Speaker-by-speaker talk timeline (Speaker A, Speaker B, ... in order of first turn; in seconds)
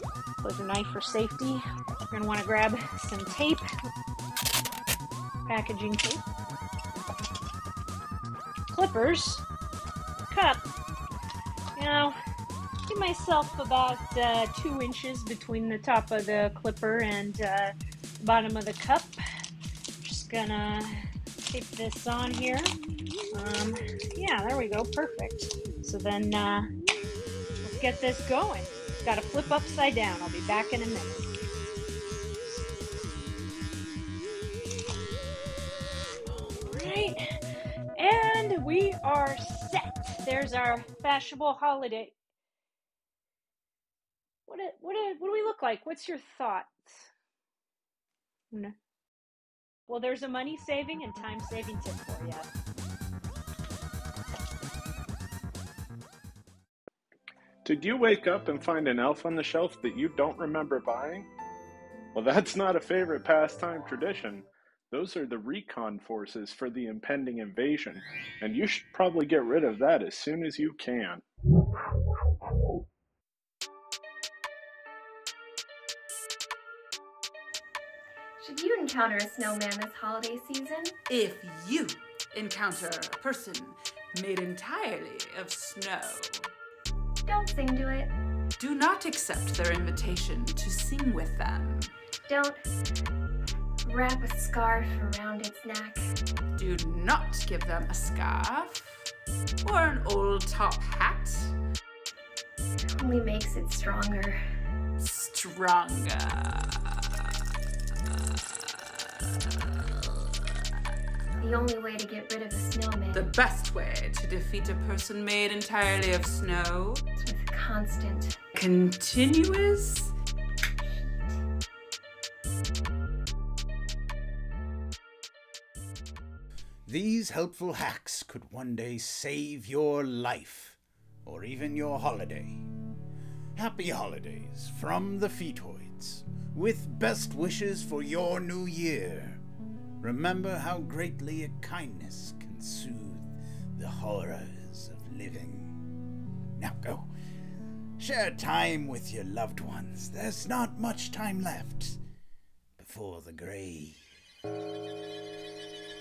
Speaker A: 0.4-3.6, 5.5-6.2, 8.7-9.4, 10.3-10.6, 11.8-12.2, 12.8-19.1, 20.0-22.7, 23.3-26.7, 27.6-31.4, 36.3-37.2, 38.0-42.1, 44.5-47.1, 49.9-52.5
Speaker B: 57.6-61.3, 62.1-71.2
Speaker C: 78.4-80.9, 87.2-88.1, 92.3-92.6, 93.8-96.1, 102.9-104.4, 111.4-113.3, 117.2-118.4, 120.8-121.4
Speaker D: 81.1-86.5, 88.6-91.9, 96.6-99.0, 99.6-101.5, 105.0-107.2, 108.1-110.5, 113.1-117.0, 118.5-120.1
Speaker E: 126.8-132.7, 133.6-139.4, 140.0-145.8, 146.6-147.1, 148.0-152.0, 152.8-154.0